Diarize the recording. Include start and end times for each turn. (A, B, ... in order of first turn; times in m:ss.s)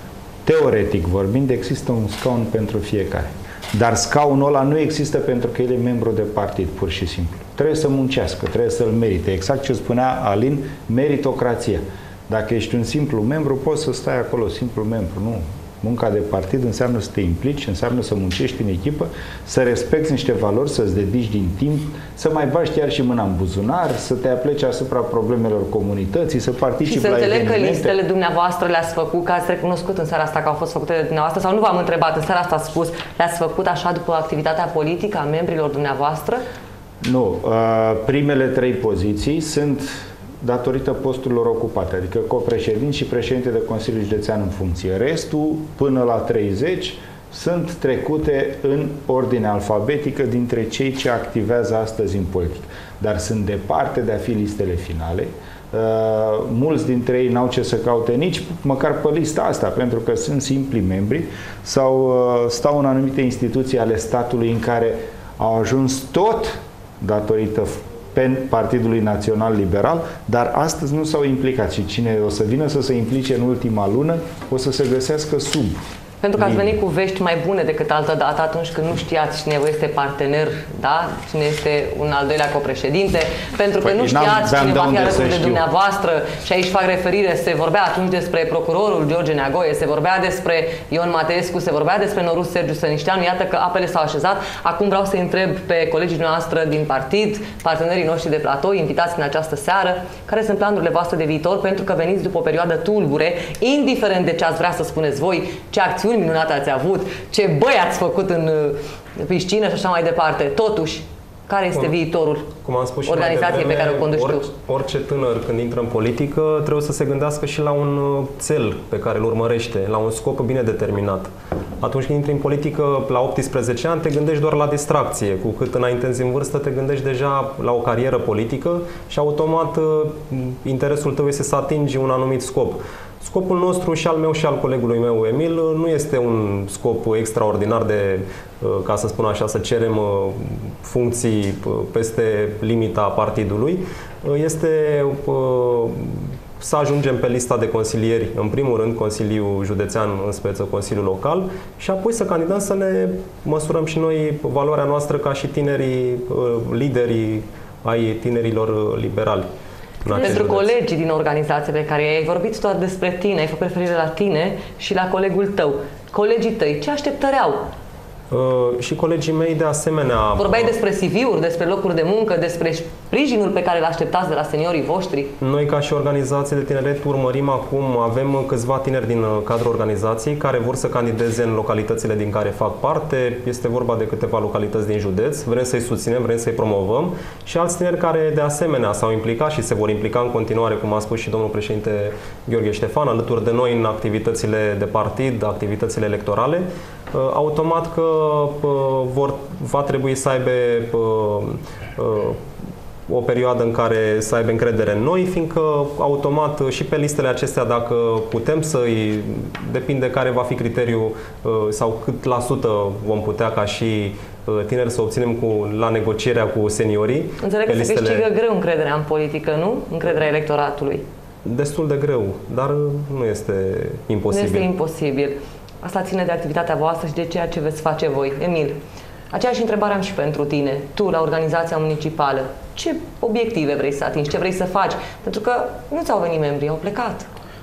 0:00.4-0:27.9 A
0:26.8-0:36.4 B
0:37.0-1:15.8 A
1:16.2-1:52.5 B
1:16.4-1:16.7 A
1:23.8-1:25.6 A
1:52.6-2:39.5 C
1:53.1-1:54.4 B
2:40.0-2:40.7 C
2:40.1-2:47.7 B
2:48.3-2:50.7 C
2:50.4-2:55.3 B
2:55.4-3:22.4 C
3:23.1-3:38.2 C
3:37.4-3:41.0 B
3:41.4-3:44.7 C
3:44.3-3:48.8 B
3:49.3-3:57.3 B